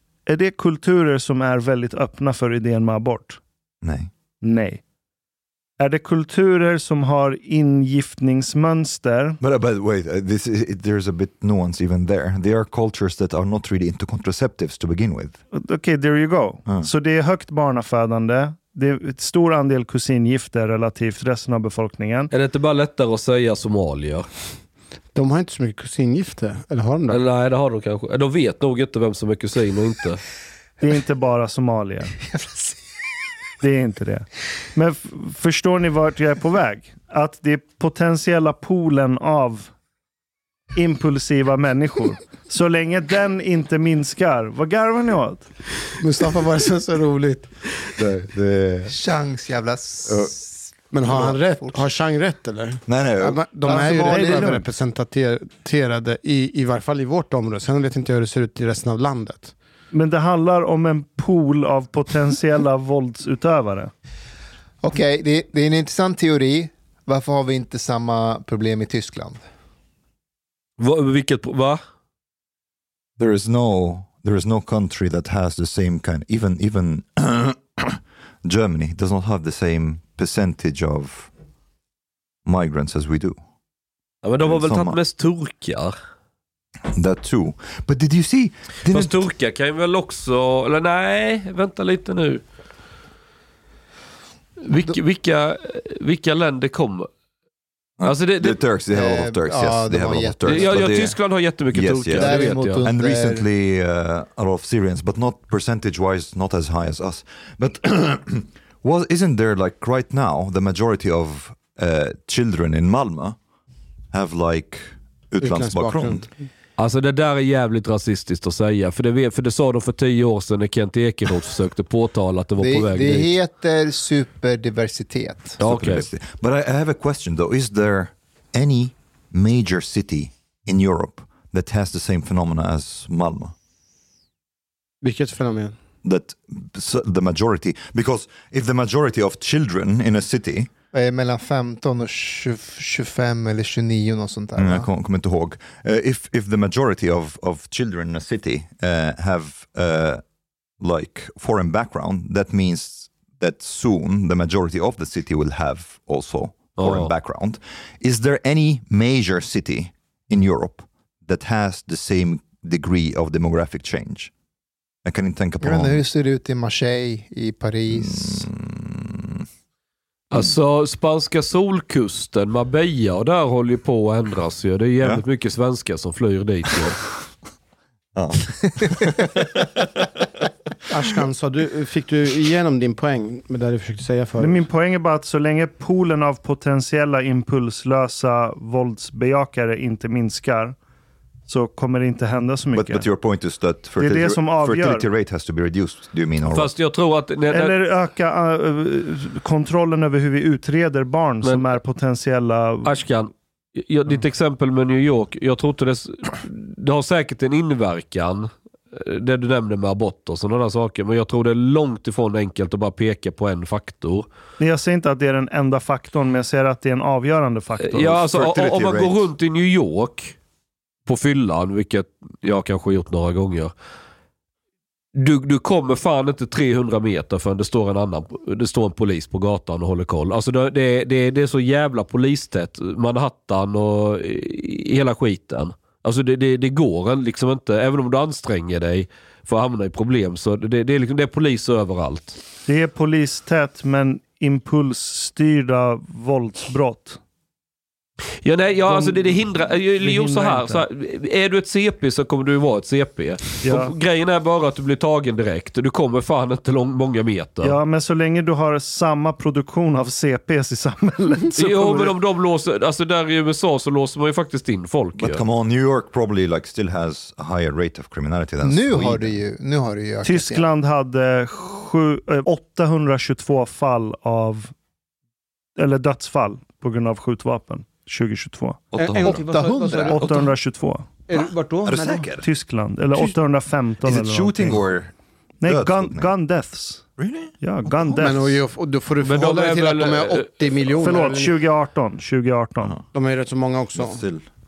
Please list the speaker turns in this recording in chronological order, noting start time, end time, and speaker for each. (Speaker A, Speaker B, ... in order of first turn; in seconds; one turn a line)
Speaker A: 0.2-3.4
Speaker B: 3.8-4.1
Speaker A: 4.4-4.8
Speaker A: 5.8-9.4
Speaker B: 9.4-15.4
Speaker A: 15.5-22.3
Speaker C: 22.3-24.3
Speaker D: 25.1-27.2
Speaker C: 27.1-30.2
Speaker A: 30.8-32.1
Speaker E: 32.3-32.7
Speaker A: 33.6-39.7
Speaker A: 40.7-45.5
Speaker D: 46.0-47.5
Speaker B: 48.0-48.9
Speaker E: 48.9-51.8
Speaker D: 50.9-59.5
Speaker B: 52.9-53.5
Speaker E: 53.6-54.6
Speaker A: 54.0-54.7
Speaker A: 59.9-63.9
Speaker E: 64.8-69.4
Speaker C: 70.8-71.8
Speaker B: 73.2-81.3
Speaker B: 82.4-83.4
Speaker C: 84.2-85.9
Speaker B: 84.4-85.0
Speaker B: 86.9-89.2
Speaker C: 88.9-92.4
Speaker C: 94.6-97.1
Speaker B: 98.0-113.4
Speaker C: 98.0-98.6
Speaker E: 98.9-101.1
Speaker C: 100.4-102.8
Speaker E: 102.1-103.5
Speaker B: 114.1-116.3
Speaker D: 115.4-116.5
Speaker C: 116.8-123.3
Speaker E: 122.6-125.6
Speaker C: 125.6-126.0
Speaker B: 125.6-133.5
Speaker D: 135.0-135.8
Speaker B: 136.0-140.7
Speaker E: 140.9-144.9
Speaker B: 144.6-150.2
Speaker B: 150.8-164.3
Speaker C: 156.8-157.1
Speaker B: 165.0-166.0
Speaker E: 165.6-168.5
Speaker B: 167.9-169.4
Speaker C: 170.3-177.0
Speaker B: 178.1-179.7
Speaker D: 180.9-184.7
Speaker A: 184.4-190.8
Speaker A: 191.5-193.1
Speaker B: 192.7-196.7
Speaker A: 194.0-195.1
Speaker C: 196.5-197.7
Speaker A: 197.5-202.9
Speaker C: 202.8-214.3
Speaker A: 214.6-218.1
Speaker C: 217.8-220.3
Speaker B: 218.0-219.3
Speaker C: 221.1-223.7
Speaker C: 225.2-242.4
Speaker A: 242.7-247.2
Speaker C: 248.4-257.8
Speaker A: 248.8-249.4
Speaker A: 250.0-250.8
Speaker A: 253.6-253.9
Speaker A: 257.6-262.1
Speaker C: 261.6-265.4
Speaker B: 265.1-269.4
Speaker E: 268.6-270.7
Speaker A: 270.2-274.7
Speaker A: 275.8-278.9
Speaker B: 278.9-279.5
Speaker D: 278.9-280.5
Speaker E: 279.5-280.4
Speaker A: 280.1-281.2
Speaker D: 281.3-282.3
Speaker B: 281.8-282.5
Speaker A: 282.4-284.8
Speaker B: 284.0-285.1
Speaker A: 285.6-287.1
Speaker B: 285.6-286.3
Speaker B: 287.2-287.5
Speaker A: 287.6-288.6
Speaker D: 288.1-291.6
Speaker C: 289.2-290.8
Speaker A: 291.0-293.0
Speaker D: 293.1-294.2
Speaker B: 293.9-294.4